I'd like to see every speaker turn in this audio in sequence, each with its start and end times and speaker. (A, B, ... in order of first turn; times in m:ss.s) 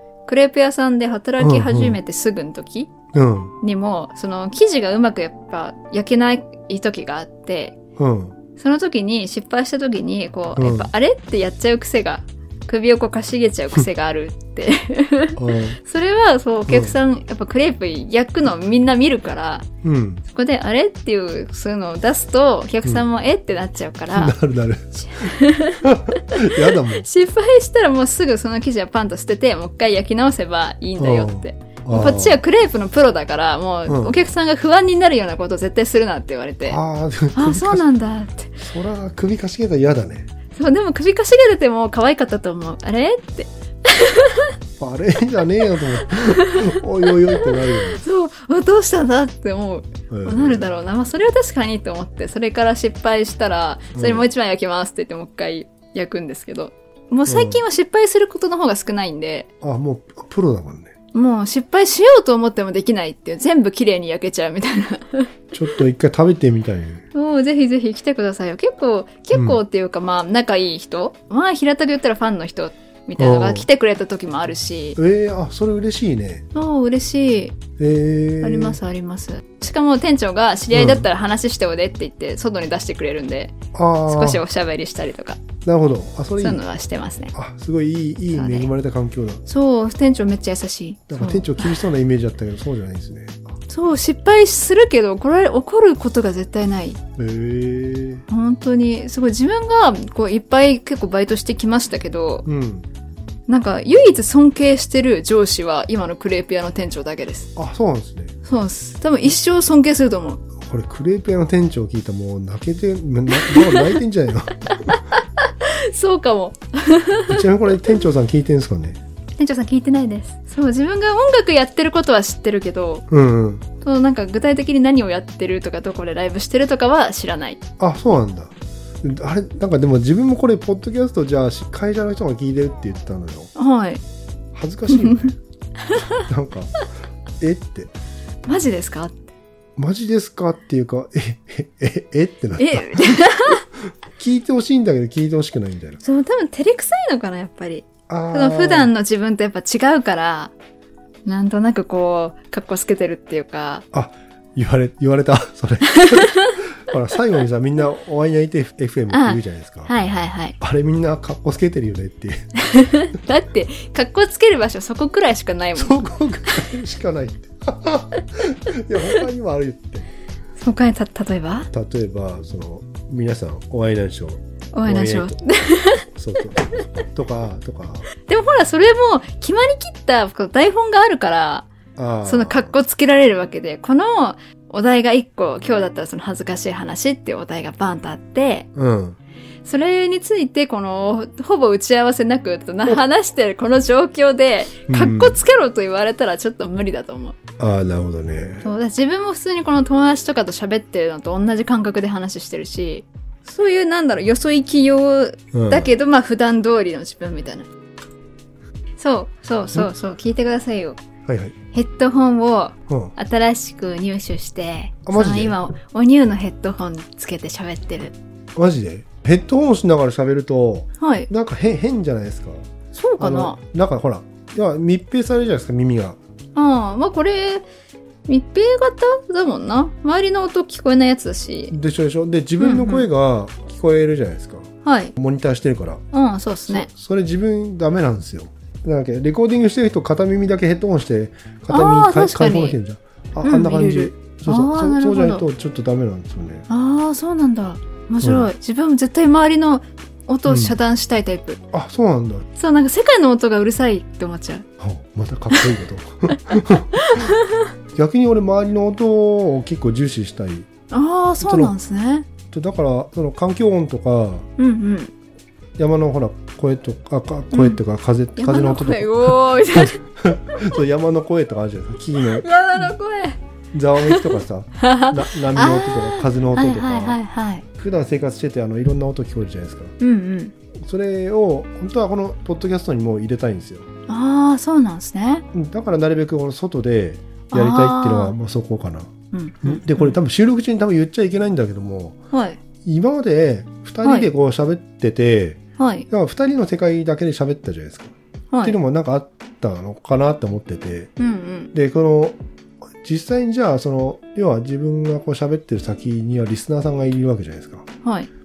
0:00.3-0:02.9 A
0:01.4-0:02.0 B
0:03.1-0:03.5 B
0:03.6-0:07.8 A
0:08.0-0:08.4 B
0:08.6-0:19.7 A
0:10.6-0:10.9 B
0:15.4-0:15.8 B
0:16.7-0:16.9 B
0:19.8-0:20.2 B
0:20.3-0:24.4 A
0:24.1-0:27.0 B
0:25.1-0:36.8 A
0:31.0-0:32.4 B
0:33.8-0:34.2 B
0:36.6-0:37.8 B
0:37.3-0:38.6 A
0:38.6-0:40.3 B
0:40.5-0:44.5 A
0:44.8-0:48.0 B
0:46.0-0:59.5 A
0:50.1-0:50.7 B
0:53.9-0:54.2 B
0:57.3-0:57.6 B
0:59.6-1:00.9 B
1:01.1-1:05.3 A
1:05.5-1:07.0 B
1:07.1-1:15.0 A
1:09.3-1:09.6 B
1:13.2-1:13.7 B
1:15.0-1:16.4 B
1:16.5-1:17.6 A
1:17.8-1:18.8 B
1:18.4-1:25.4 A
1:20.7-1:21.1 B
1:23.7-1:24.4 B
1:25.6-1:26.6 B
1:26.4-1:27.3 A
1:27.3-1:29.4 B
1:28.3-1:28.7 A
1:29.4-1:31.8 A
1:31.1-1:33.4 B
1:33.7-1:37.0 A
1:37.2-1:38.2 B
1:38.3-1:42.4 A
1:42.4-1:42.9 B
1:43.5-1:47.5 A
1:47.6-1:48.4 B
1:48.4-1:50.4 A
1:50.6-1:54.9 B
1:53.4-1:53.9 A
1:54.8-1:57.5 A
1:57.3-1:59.0 B
1:59.4-2:03.0 A
2:03.1-2:03.6 B
2:03.8-2:07.6 A
2:07.8-2:13.5 B
2:13.6-2:14.0 A
2:14.5-2:15.4 B
2:14.9-2:16.3 A
2:16.2-2:16.8 B
2:17.4-2:17.9 B
2:18.4-2:19.3 A
2:19.8-2:23.2 B
2:22.6-2:23.6 A
2:24.2-2:26.0 B
2:26.0-2:30.5 A
2:28.1-2:28.9 B
2:31.2-2:33.8 A
2:33.9-2:39.9 B
2:35.9-2:36.6 A
2:39.1-2:40.6 A
2:40.6-2:42.5 B
2:42.6-2:46.1 A
2:45.8-2:50.1 B
2:50.6-2:51.7 A
2:51.7-2:55.4 B
2:54.7-2:56.0 A
2:56.1-2:58.1 B
2:58.3-3:01.7 A
3:02.0-3:02.7 B
3:02.2-3:08.7 A
3:08.7-3:09.2 B
3:09.6-3:17.4 A
3:14.9-3:15.4 B
3:17.6-3:18.7 B
3:18.6-3:27.7 A
3:25.5-3:25.9 B
3:29.0-3:31.0 A
3:31.2-3:31.5 B
3:31.7-3:38.1 A
3:32.9-3:33.1 B
3:35.0-3:35.6 B
3:38.5-3:42.7 B
3:41.0-3:41.3 A
3:42.9-3:43.6 A
3:43.2-3:46.2 B
3:46.5-3:47.6 A
3:48.3-3:51.8 A
3:51.7-3:56.0 B
3:52.6-3:53.1 A
3:54.8-3:55.1 A
3:56.1-3:56.9 A
3:56.7-4:06.7 B
4:01.7-4:02.8 A
4:03.4-4:05.4 A
4:06.7-4:11.6 A
4:08.2-4:08.5 B
4:10.5-4:10.7 B
4:11.7-4:12.4 B
4:12.6-4:14.6 A
4:14.8-4:17.3 B
4:16.9-4:17.7 A
4:17.9-4:20.7 B
4:20.9-4:22.3 A
4:21.4-4:21.7 B
4:22.5-4:24.5 B
4:24.6-4:25.1 A
4:25.8-4:32.9 B
4:27.5-4:27.8 A
4:28.4-4:30.0 A
4:32.3-4:33.4 A
4:33.7-4:37.2 B
4:34.0-4:34.3 A
4:34.8-4:37.6 A
4:37.7-4:39.9 B
4:40.0-4:40.5 A
4:40.8-4:43.9 B
4:44.1-4:45.4 A
4:45.5-4:49.1 B
4:47.5-4:48.3 A
4:49.3-4:50.2 A
4:49.6-4:52.2 B
4:52.3-4:52.6 A
4:52.8-5:01.1 B
4:54.0-4:54.3 A
4:55.8-4:56.0 A
4:58.5-4:58.8 A
5:01.2-5:01.7 A
5:01.7-5:02.4 B
5:03.0-5:07.9 B
5:08.0-5:08.3 A